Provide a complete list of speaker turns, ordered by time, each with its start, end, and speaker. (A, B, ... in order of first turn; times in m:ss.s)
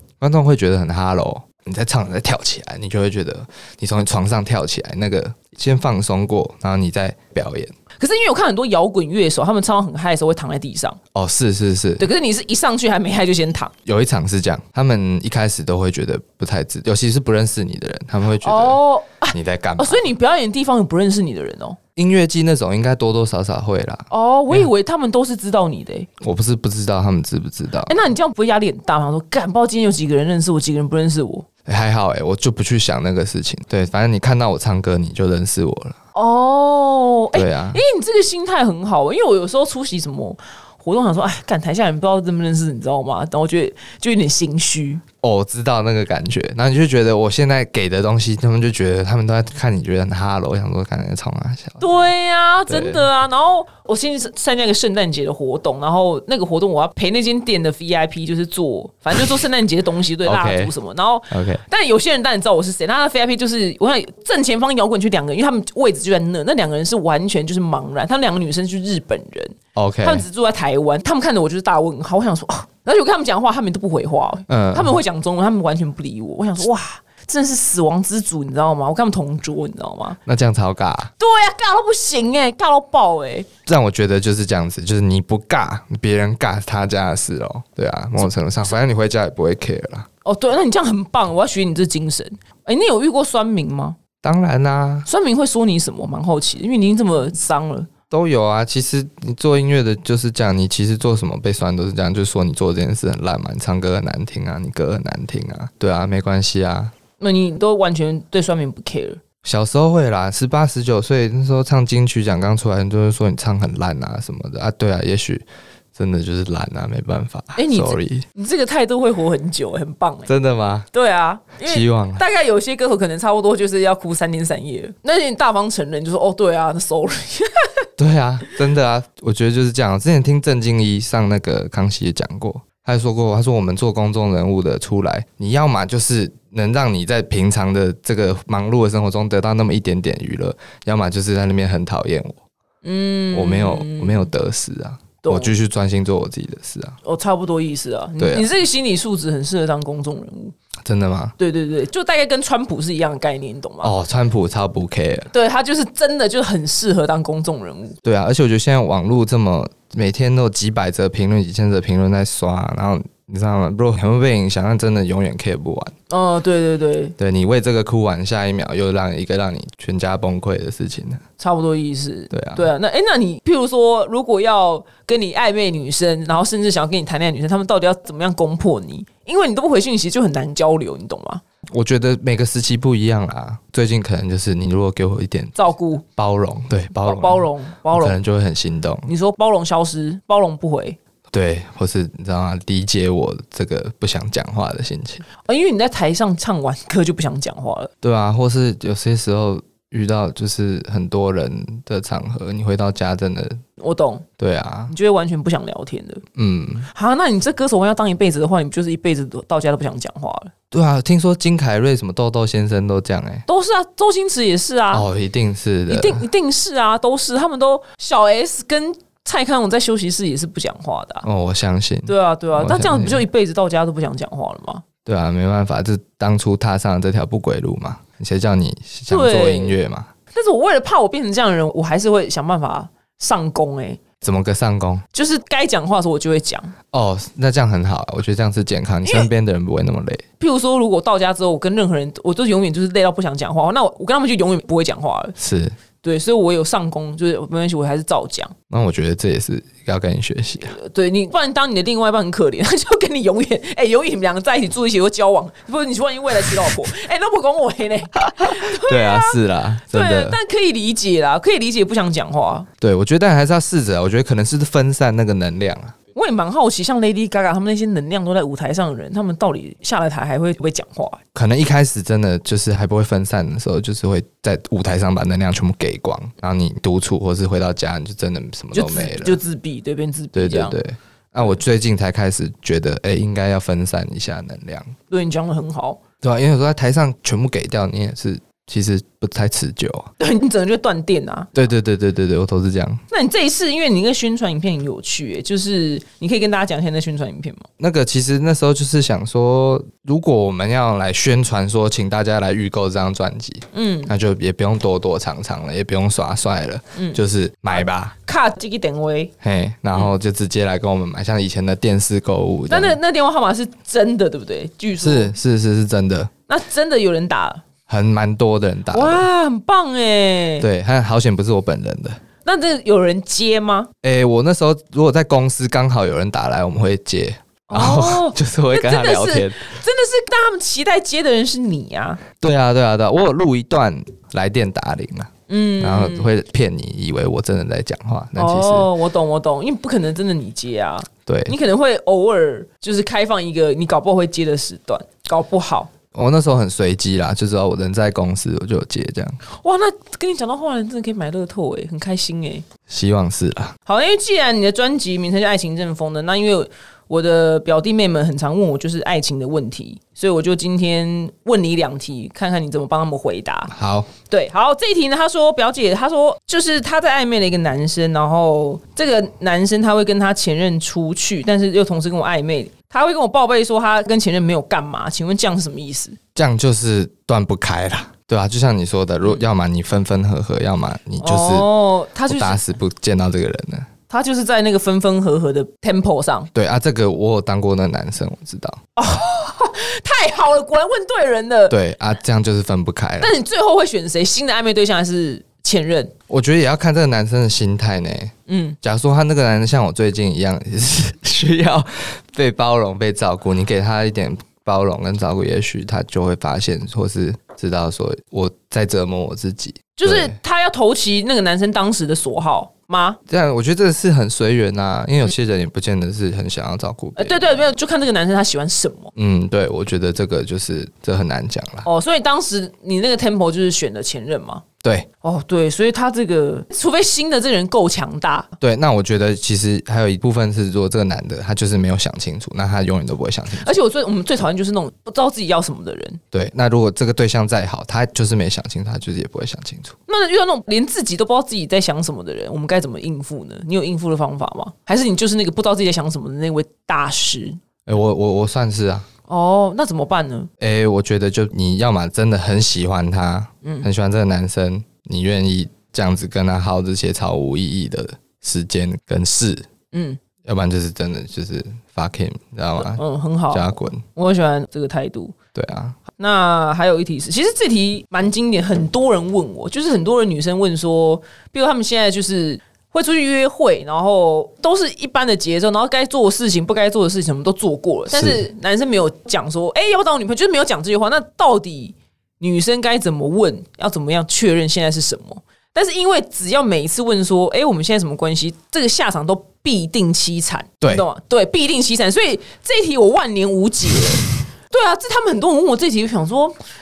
0:00.2-0:07.7 A
0:08.0-0:11.0 B
0:11.1-0:12.1 A
0:12.0-0:13.7 B
0:13.8-0:20.0 A
0:18.4-0:21.8 B
0:22.0-0:24.7 A
0:24.1-0:26.1 B
0:26.2-0:28.0 A
0:27.8-0:31.4 B
0:31.6-0:36.0 A
0:36.1-0:45.0 B
0:37.3-0:37.8 A
0:45.2-0:51.8 A
0:51.8-1:20.2 B
0:52.7-0:53.1 A
1:00.2-1:00.7 A
1:01.3-1:01.6 A
1:09.7-1:10.2 A
1:14.5-1:15.0 A
1:20.2-1:21.1 A
1:21.2-1:23.5 B
1:23.7-1:30.1 A
1:30.2-1:34.0 B
1:34.2-1:35.1 A
1:35.0-1:37.9 B
1:38.1-1:46.9 A
1:47.2-1:49.2 B
1:49.4-1:55.4 A
1:55.9-1:58.2 A
1:57.6-2:00.3 B
2:00.3-2:00.9 A
2:00.9-2:07.8 B
2:01.6-2:02.2 A
2:08.0-2:22.4 A
2:22.8-2:24.3 B
2:23.3-2:27.0 A
2:25.2-2:25.5 B
2:27.0-2:30.5 B
2:28.2-2:28.5 A
2:30.8-2:31.3 A
2:31.4-2:33.9 B
2:33.8-2:35.3 A
2:35.3-2:38.0 B
2:38.0-2:45.9 A
2:46.1-2:47.2 B
2:47.2-2:51.2 A
2:51.4-3:01.4 B
2:52.3-2:52.7 A
3:01.7-3:05.5 A
3:05.5-3:06.0 B
3:06.2-3:09.1 A
3:07.0-3:08.2 B
3:09.1-3:11.0 B
3:11.3-3:15.2 A
3:15.4-3:17.9 B
3:18.0-3:23.6 A
3:23.8-3:24.2 B
3:24.4-3:24.9 A
3:24.9-3:26.2 B
3:26.4-3:26.9 A
3:26.9-3:30.5 B
3:30.7-3:33.4 A
3:33.5-3:35.0 B
3:34.9-3:36.2 A
3:35.9-3:41.2 B
3:41.2-3:43.2 A
3:42.1-3:44.8 B
3:45.0-3:50.1 A
3:49.1-3:49.8 B
3:50.3-3:54.0 B
3:54.2-3:55.0 A
3:55.1-3:56.7 B
3:56.9-4:00.2 A
4:00.4-4:05.3 B
4:05.4-4:05.7 A
4:06.0-4:08.5 B
4:08.7-4:10.7 A
4:10.6-4:19.4 B
4:18.6-4:20.4 A
4:19.9-4:22.7 B
4:22.8-4:25.9 A
4:26.1-4:31.2 B
4:31.3-4:39.4 A
4:38.7-4:40.8 B
4:40.3-4:44.9 A
4:45.1-4:46.0 B
4:46.2-4:50.1 A
4:50.2-4:51.5 B
4:51.5-4:53.0 A
4:53.1-4:57.6 B
4:57.8-5:08.1 A
5:03.7-5:04.1 B
5:06.9-5:09.3 B
5:09.4-5:13.0 A
5:12.7-5:15.3 B
5:15.0-5:16.3 A
5:16.5-5:17.6 B
5:17.9-5:19.3 A
5:18.9-5:20.6 B
5:20.6-5:22.2 A
5:22.4-5:23.9 B
5:24.0-5:29.7 A
5:27.7-5:32.2 B
5:32.4-5:38.9 A
5:35.5-5:36.3 B
5:38.4-5:45.9 B
5:41.3-5:41.6 A
5:46.1-5:49.4 A
5:49.5-5:52.6 B
5:52.9-5:53.7 A
5:53.8-6:03.7 B
6:03.7-6:04.1 A
6:04.3-6:16.2 B
6:16.4-6:21.7 A
6:21.2-6:22.6 B
6:22.2-6:23.9 A
6:24.1-6:26.5 B
6:26.5-6:28.8 A
6:29.0-6:31.7 B
6:31.7-6:33.3 A
6:33.2-6:36.1 B
6:36.3-6:50.4 A
6:38.5-6:38.8 B
6:50.0-6:53.2 B
6:53.3-6:57.7 A
6:57.2-6:59.1 B
6:59.1-7:01.9 A
7:01.8-7:04.6 B
7:05.2-7:08.5 B
7:08.6-7:13.7 A
7:13.6-7:16.2 B
7:16.3-7:19.9 A
7:20.1-7:27.6 B
7:27.8-7:29.0 A
7:29.3-7:30.5 B
7:30.6-7:39.7 A
7:33.6-7:33.9 B
7:39.9-7:40.2 B
7:40.4-7:44.0 A
7:42.8-7:45.4 B
7:45.5-7:46.0 A
7:46.2-8:16.5 B
7:58.1-7:58.4 A
8:10.8-8:11.0 A